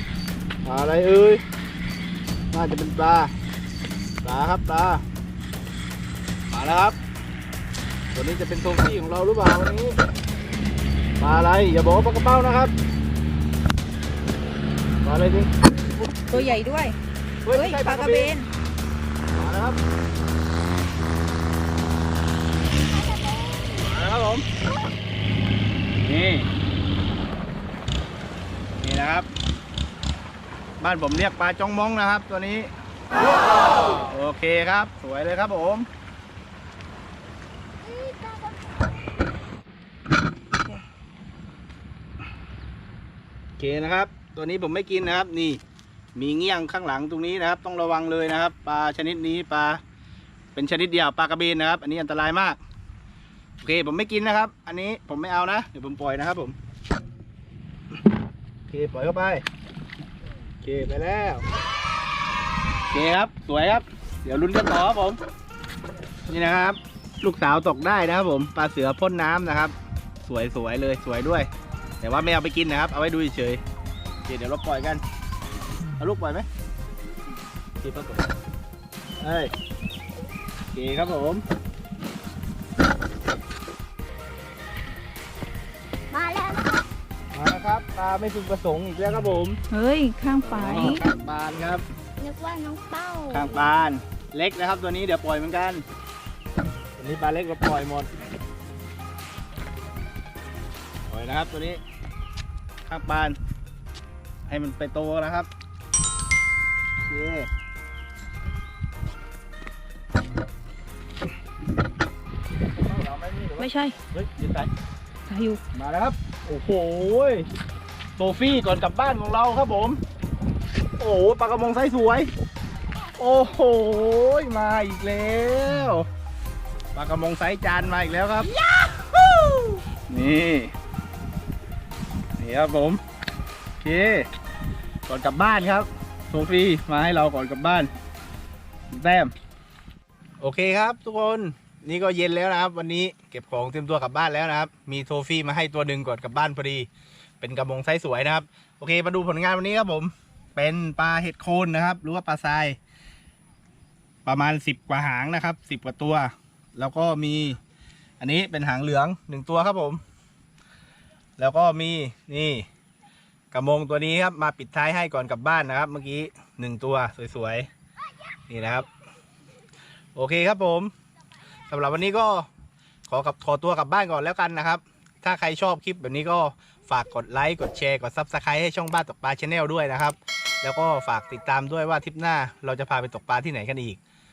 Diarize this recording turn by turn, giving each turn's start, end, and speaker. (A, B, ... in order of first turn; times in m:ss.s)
0:00.6-0:01.4 A
0:02.5-0:03.3 A
0:04.2-0:05.0 A
0:06.5-0:07.0 A
0:08.1-0:10.0 A
0:11.2-0:12.7 A
0:15.0-0:16.6 A
0:16.3-0:17.0 B
0:17.4-0:18.3 A
0:17.5-0:18.5 B
0:19.3-0:19.8 A
0:22.9-0:23.9 C
0:23.8-0:24.4 A
0:26.0-0:26.5 A
0:28.8-0:29.3 A
0:30.8-0:32.7 A
0:33.9-0:35.9 A
0:37.8-0:39.0 C
0:43.6-0:45.6 A
0:46.2-0:49.8 A
0:50.6-0:52.6 A
0:53.6-0:56.6 A
0:58.7-0:59.4 A
1:00.6-1:01.4 A
1:02.9-1:05.2 A
1:06.3-1:11.5 A
1:12.0-1:13.6 A
1:14.3-1:15.0 A
1:16.0-1:16.5 A
1:17.8-1:18.3 A
1:19.2-1:19.5 A
1:20.7-1:21.4 A
1:26.1-1:26.9 C
1:27.3-1:29.6 A
1:29.7-1:31.0 B
1:30.4-1:31.8 A
1:32.2-1:33.7 C
1:33.3-1:35.8 A
1:37.0-1:38.1 A
1:41.1-1:41.8 A
1:42.9-1:43.4 A
1:44.5-1:45.5 A
1:47.1-1:47.5 A
1:52.7-1:54.7 A
1:53.6-1:54.0 B
1:55.3-1:55.6 B
1:55.7-1:57.5 A
1:58.2-2:00.0 A
2:01.0-2:02.3 A
2:03.2-2:06.1 A
2:07.0-2:08.5 A
2:09.2-2:10.7 A
2:12.4-2:13.0 A
2:13.8-2:14.3 A
2:15.1-2:17.9 A
2:18.9-2:19.3 A
2:20.4-2:26.9 A
2:27.4-2:32.8 A
2:34.3-2:37.6 A
2:38.2-2:40.0 A
2:41.4-2:42.7 A
2:43.5-2:47.7 A
2:48.5-2:48.9 A
2:50.2-2:50.9 A
2:51.7-2:52.5 A
2:53.1-3:04.0 A